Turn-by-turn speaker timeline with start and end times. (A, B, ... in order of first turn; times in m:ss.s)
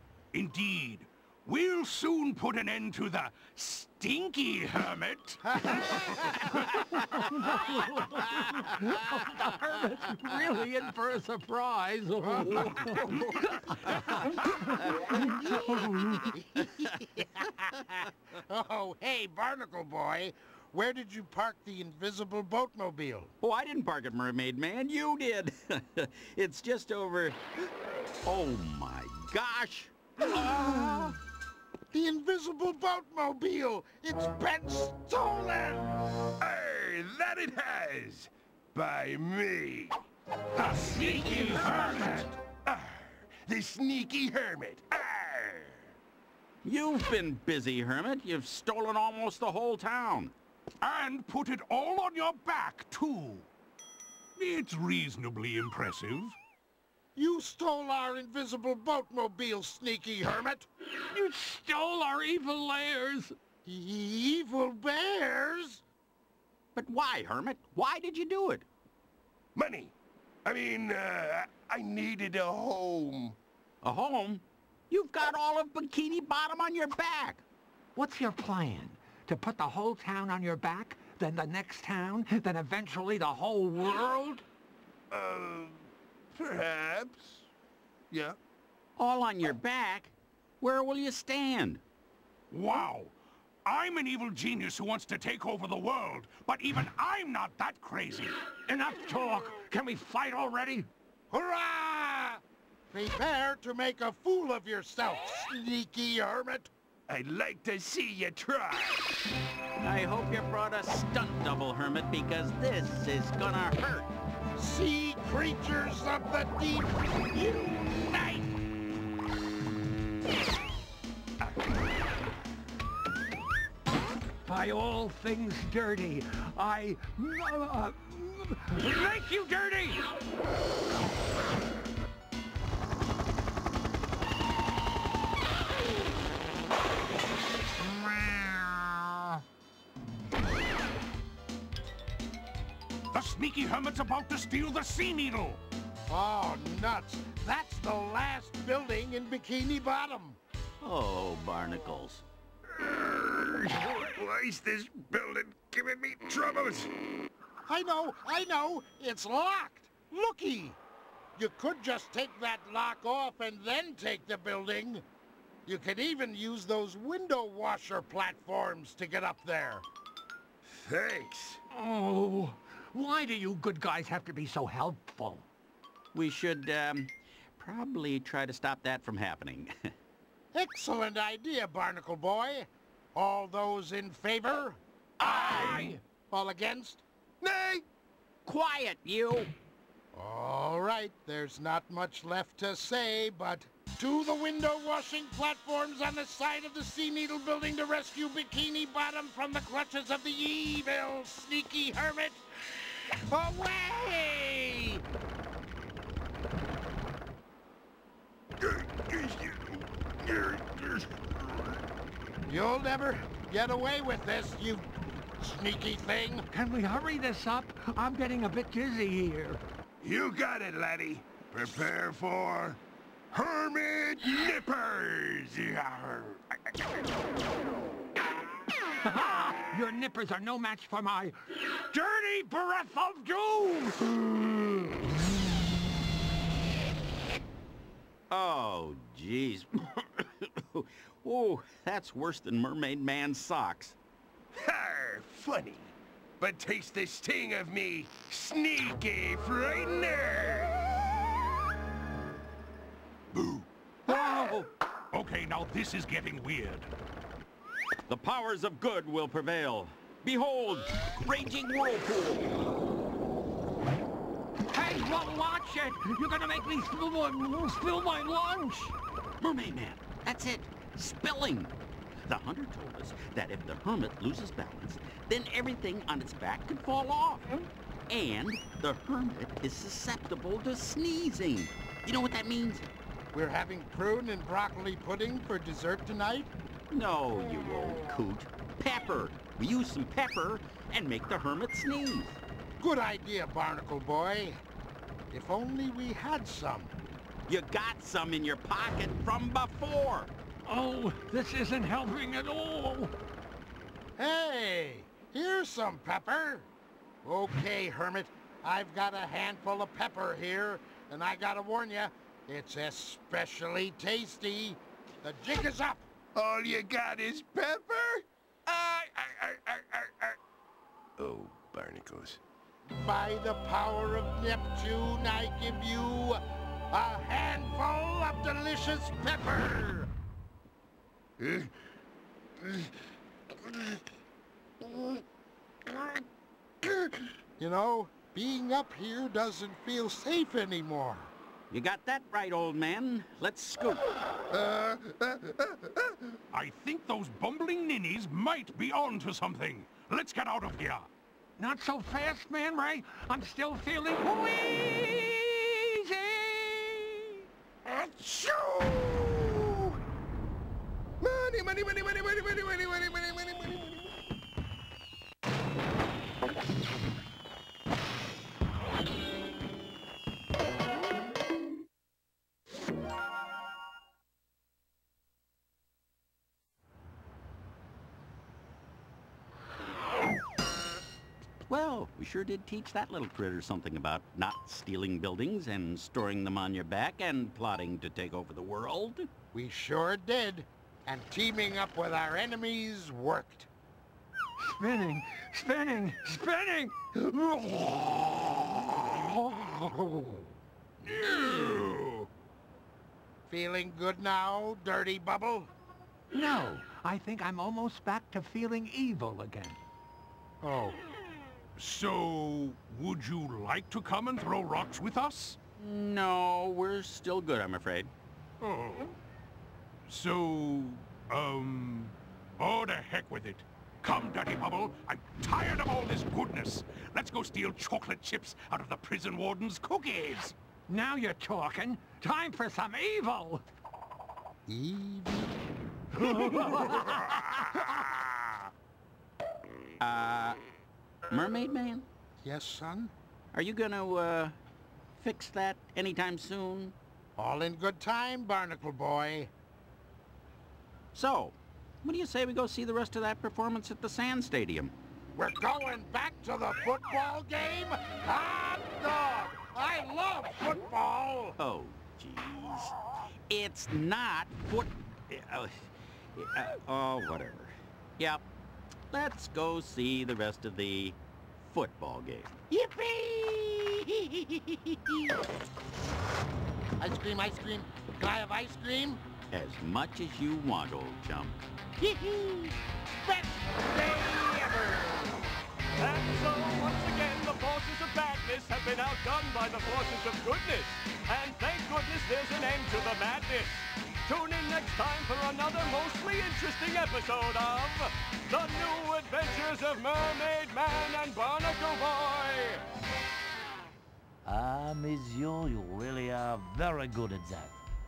0:00.3-0:06.7 A
0:07.1-0:16.2 B
0:12.2-0:13.3 C
0:15.4-0:15.6 C
0:16.3-0:23.3 C
0:16.7-0:16.9 D
0:23.4-0:27.4 D
0:28.2-0:31.1 D
0:30.2-0:31.1 C
0:31.9-0:36.0 C
0:36.4-0:40.0 E
0:40.6-0:42.3 B
0:40.6-0:42.2 A
0:42.6-0:45.9 E
0:46.6-0:50.3 D
0:50.8-0:53.5 A
0:54.4-0:56.4 A
0:57.1-1:00.7 C
1:01.1-1:03.3 B
1:03.6-1:05.8 C
1:06.7-1:08.6 D
1:09.5-1:13.4 E
1:13.8-1:17.4 D
1:18.0-1:24.4 B
1:25.1-1:27.5 E
1:28.1-1:28.4 E
1:29.0-1:31.8 D
1:32.5-1:38.4 A
1:38.7-1:40.9 B
1:41.3-1:46.7 C
1:47.1-1:49.1 E
1:49.8-1:54.1 D
1:54.6-1:57.4 C
2:04.4-2:10.1 B
2:17.8-2:19.3 C
2:23.1-2:25.6 A
2:26.1-2:30.4 C
2:30.8-2:32.2 D
2:32.7-2:36.9 E
2:37.6-2:40.8 C
2:41.4-2:45.0 C
2:45.6-2:49.8 C
2:50.7-2:51.6 E
2:51.7-2:55.4 B
2:56.1-2:59.9 D
3:00.5-3:07.0 C
3:05.2-3:06.0 E
3:07.4-3:07.8 E
3:08.4-3:09.5 D
3:10.1-3:22.4 C
3:23.1-3:25.0 C
3:28.6-3:31.8 E
3:32.5-3:36.5 C
3:36.5-3:39.6 B
3:40.0-3:42.8 E
3:43.3-3:46.4 E
3:49.0-3:54.0 B
3:58.3-4:04.0 D
4:04.5-4:10.9 E
4:13.3-4:13.6 A
4:14.1-4:14.7 D
4:15.1-4:16.9 A
4:18.1-4:22.6 D
4:24.7-4:28.9 B
4:29.4-4:37.5 D
4:38.1-4:42.9 D
4:43.3-4:46.5 C
4:46.9-4:52.4 D
4:52.8-4:54.6 C
4:55.3-4:57.0 C
4:57.5-5:00.3 D
5:00.6-5:03.1 B
5:04.2-5:06.7 C
5:07.2-5:16.1 C
5:16.3-5:20.4 E
5:21.2-5:22.4 E
5:22.9-5:30.1 C
5:31.4-5:31.7 E
5:32.6-5:32.9 E
5:33.6-5:34.0 E
5:34.8-5:35.2 E
5:35.9-5:36.2 E
5:36.8-5:37.2 E
5:37.6-5:41.3 C
5:41.7-5:44.0 D
5:44.5-5:46.2 E
5:46.5-5:51.1 A
5:51.6-5:57.3 B
5:57.8-6:00.0 E
6:01.2-6:04.1 E
6:21.7-6:29.3 D
6:29.5-6:33.7 C
6:34.6-6:40.5 B
6:43.5-6:45.7 C
6:46.3-6:49.8 B
6:50.6-6:51.0 C
6:51.8-6:55.6 A
6:55.8-6:58.1 D
6:58.6-6:59.1 A
7:00.1-7:10.5 A
7:10.9-7:13.6 B
7:14.7-7:15.5 C
7:16.3-7:17.0 B
7:20.0-7:20.6 D
7:21.3-7:22.0 D
7:22.4-7:23.1 C
7:23.5-7:24.6 D
7:25.2-7:26.9 D
7:27.4-7:29.5 C
7:31.1-7:34.9 D
7:35.3-7:41.6 C
7:41.6-7:43.0 D
7:43.5-7:48.4 D
7:49.1-7:52.5 D
7:52.7-7:55.4 C
7:57.0-7:59.2 C
7:59.5-8:01.6 D
8:02.0-8:05.4 C
8:06.0-8:22.8 F
8:24.4-8:27.8 G